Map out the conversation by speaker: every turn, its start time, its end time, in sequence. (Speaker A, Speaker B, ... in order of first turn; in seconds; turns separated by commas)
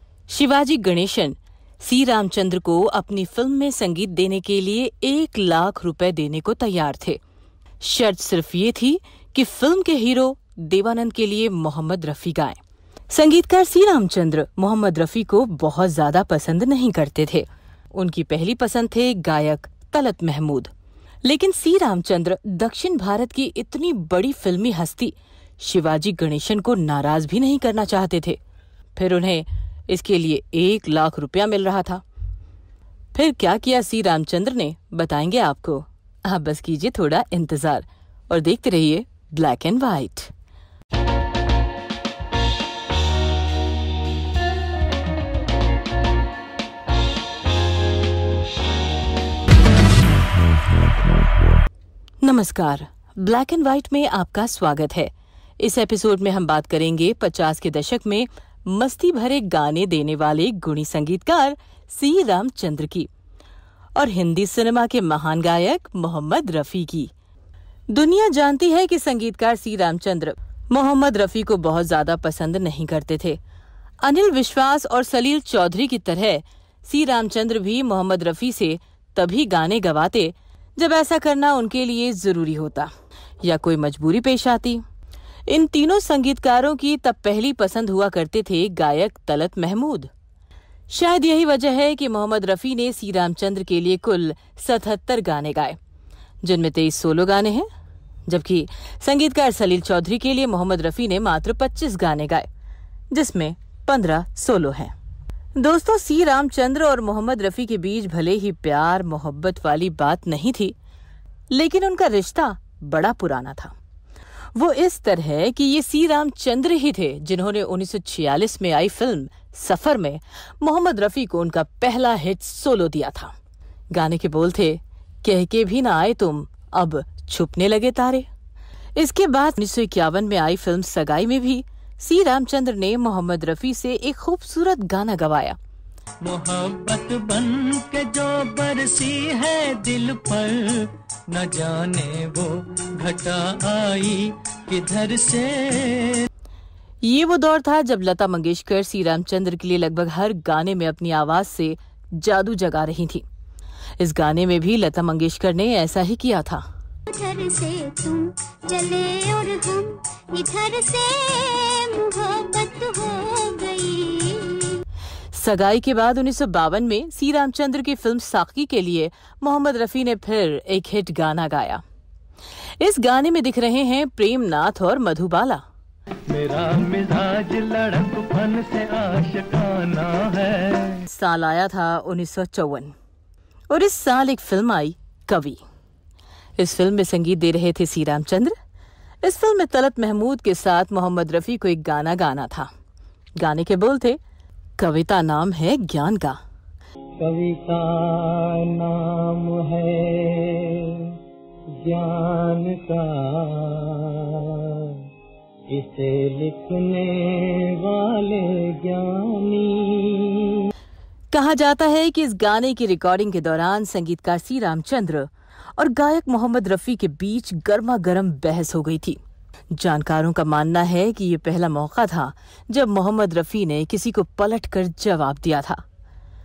Speaker A: 0.3-7.2, Speaker A: 7.8-12.6, Speaker A: 13.1-20.7, Speaker A: 21.2-28.4, Speaker A: 29.0-32.0, Speaker A: 33.1-40.3, Speaker A: 52.2-63.1, Speaker A: 64.0-67.1, Speaker A: 67.9-73.4, Speaker A: 74.0-82.9, Speaker A: 83.4-84.8, Speaker A: 85.5-90.1, Speaker A: 90.9-95.8, Speaker A: 96.4-97.7, Speaker A: 98.3-102.5, Speaker A: 103.1-104.9, Speaker A: 105.6-110.7, Speaker A: 111.5-113.7, Speaker A: 114.5-123.3, Speaker A: 123.9-128.3, Speaker A: 129.0-135.6, Speaker B: 136.2-146.3, Speaker A: 147.0-153.2, Speaker A: 154.0-156.6, Speaker C: 157.1-164.8, Speaker A: 165.3-171.8, Speaker A: 172.8-175.6, Speaker B: 176.3-181.1, Speaker A: 181.1-182.9, Speaker A: 183.7-185.6, Speaker A: 186.6-188.6, Speaker A: 189.2-192.7, Speaker A: 193.4-194.2, Speaker A: 194.8-196.4, Speaker B: 197.2-201.2, Speaker B: 201.8-205.0, Speaker B: 205.7-210.7, Speaker A: 211.3-219.2, Speaker A: 219.7-225.8